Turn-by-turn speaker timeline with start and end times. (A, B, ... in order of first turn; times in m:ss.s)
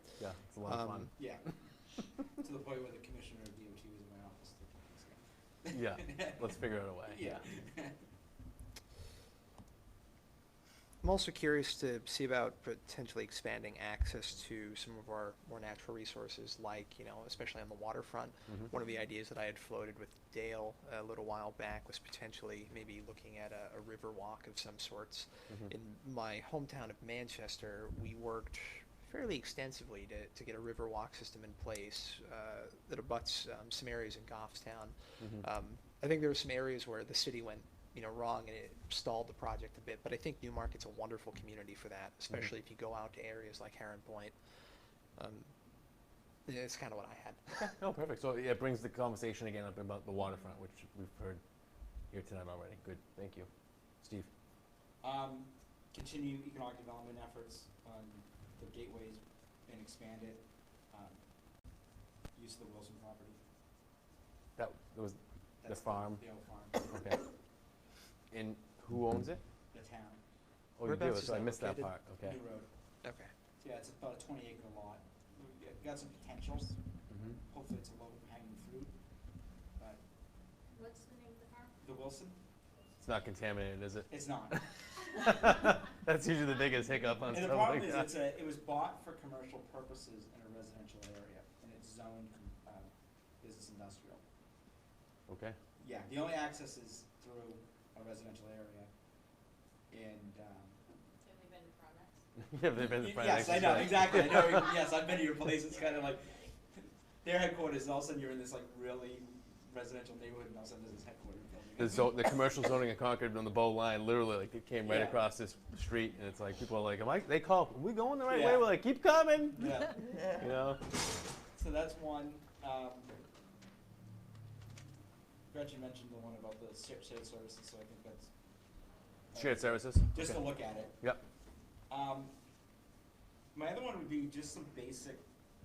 0:00.2-0:01.1 A
0:00.6-0:01.1 B
0:01.2-0:01.5 C
0:02.4-0:08.0 C
0:05.7-0:07.4 A
0:11.0-0:44.4 B
0:35.2-0:35.4 A
0:45.2-0:45.5 B
0:46.5-0:47.8 B
0:47.8-0:51.4 A
0:52.1-0:53.5 A
0:54.0-0:54.3 A
0:55.0-1:01.2 C
1:02.3-1:03.4 C
1:04.6-1:06.2 A
1:05.6-1:06.9 C
1:06.8-1:07.2 A
1:08.3-1:09.4 A
1:09.7-1:10.2 C
1:10.8-1:12.4 A
1:10.8-1:11.3 B
1:11.2-1:12.7 C
1:13.0-1:13.3 B
1:13.6-1:16.8 C
1:17.5-1:18.9 C
1:20.7-1:21.7 D
1:21.8-1:22.4 C
1:23.0-1:28.2 A
1:24.1-1:24.6 C
1:27.3-1:32.9 C
1:33.4-1:34.2 C
1:35.3-1:35.6 A
1:35.8-1:38.9 C
1:39.9-1:40.8 C
1:41.2-1:42.2 D
1:42.5-1:44.7 A
1:42.7-1:52.2 C
1:44.6-1:45.2 D
1:45.7-1:46.3 D
1:51.8-2:00.8 A
1:54.8-1:55.2 C
1:58.3-1:58.7 C
1:59.5-2:00.3 C
2:01.6-2:03.1 C
2:05.5-2:08.3 C
2:09.3-2:11.0 C
2:09.3-2:11.2 A
2:11.9-2:12.3 C
2:13.5-2:15.2 C